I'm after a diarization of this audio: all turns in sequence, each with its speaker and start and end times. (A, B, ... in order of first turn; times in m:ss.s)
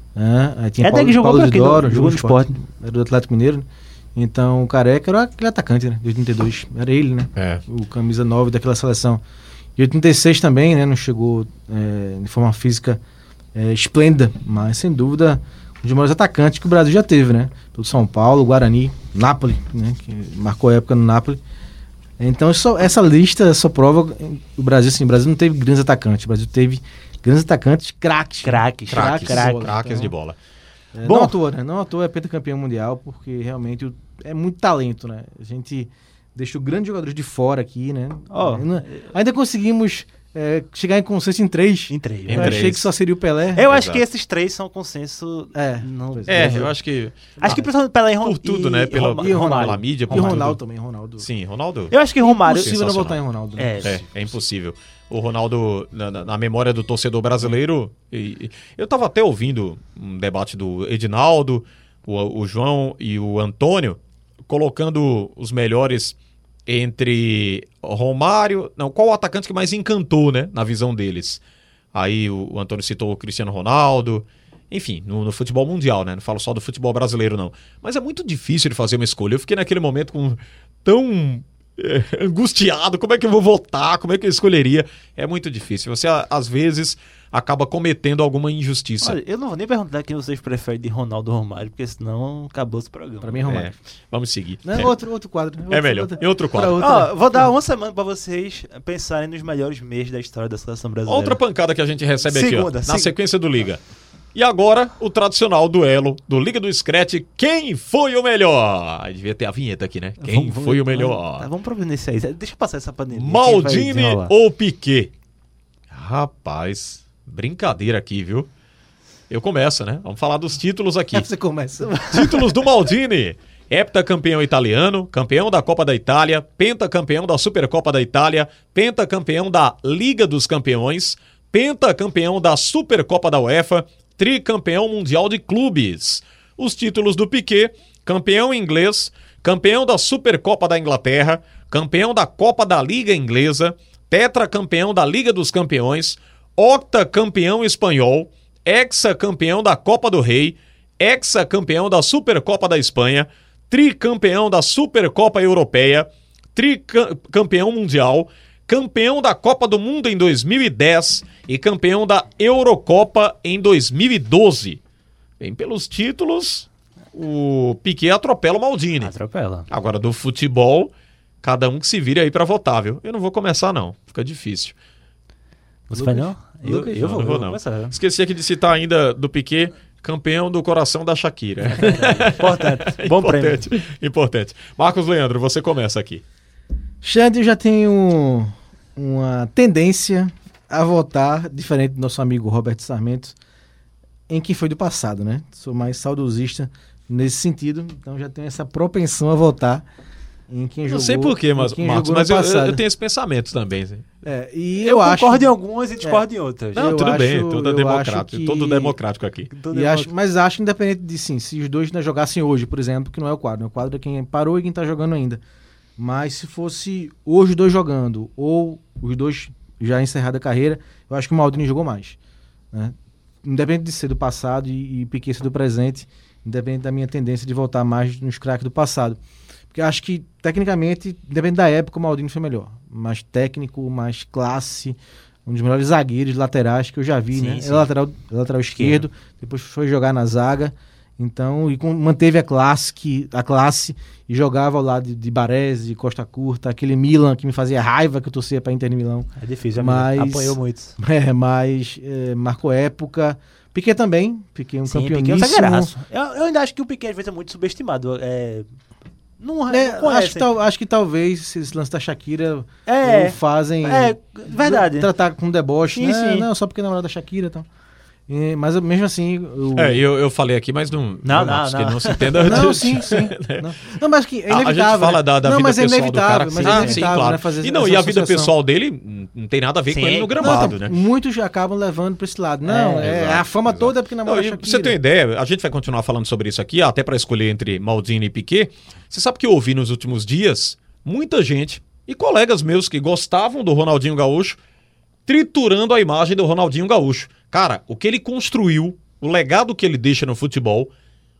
0:00.2-0:09.2 A
0:00.8-0:02.6 B
0:07.4-0:07.6 C
0:09.8-0:13.0 A
0:13.6-0:21.4 A
0:22.2-0:30.1 A
0:28.4-0:29.7 B
0:28.9-0:30.4 C
0:30.9-0:43.7 A
0:31.0-0:31.4 B
0:38.3-0:39.1 B
0:41.9-0:42.7 B
0:42.3-0:42.9 C
0:43.6-0:46.7 B
0:43.7-0:44.0 C
0:45.5-0:46.7 A
0:46.3-0:50.6 C
0:47.4-0:50.5 B
0:49.0-0:51.3 A
0:51.2-0:52.0 C
0:51.9-0:52.8 B
0:52.2-0:54.0 A
0:52.5-0:53.2 C
0:53.6-0:54.0 B
0:53.8-1:06.2 C
1:06.7-1:11.4 C
1:11.9-1:29.2 C
1:29.0-1:33.5 B
1:33.2-1:33.7 A
1:33.5-1:35.0 C
1:34.6-1:37.5 A
1:35.7-1:36.8 C
1:36.8-1:41.4 B
1:41.1-1:43.8 C
1:42.2-1:43.1 B
1:44.4-1:51.5 C
1:50.2-1:54.3 B
1:53.1-1:55.1 C
1:55.9-1:58.5 C
1:59.3-2:01.3 C
2:01.1-2:01.9 A
2:01.9-2:02.2 B
2:02.1-2:44.8 C
2:45.4-2:49.1 C
2:49.0-2:49.7 B
2:49.7-2:50.9 C
2:51.4-2:54.7 C
2:55.9-2:58.0 B
2:55.9-2:57.0 A
2:56.8-3:06.2 C
3:01.7-3:03.7 B
3:07.0-3:13.4 A
3:14.3-3:19.8 A
3:20.5-3:22.8 A
3:20.9-3:24.0 C
3:24.2-3:26.2 A
3:24.8-3:27.0 B
3:26.7-3:29.0 A
3:26.8-3:29.5 C
3:29.5-3:30.1 B
3:29.7-3:35.4 A
3:36.0-3:42.2 A
3:42.7-3:49.2 A
3:49.7-4:15.9 A
3:57.3-3:57.9 B
3:58.8-3:59.0 B
4:09.4-4:11.0 B
4:14.9-4:18.7 B
4:19.4-4:20.5 B
4:19.7-4:27.7 A
4:22.9-4:25.1 B
4:25.9-4:26.5 B
4:28.3-4:30.0 A
4:29.8-4:33.7 C
4:31.2-4:32.8 B
4:32.4-4:38.5 A
4:34.5-4:41.0 C
4:36.6-4:37.1 B
4:39.9-4:40.7 B
4:40.4-4:45.0 A
4:42.7-4:43.0 B
4:43.0-4:54.6 C
4:55.3-5:00.9 C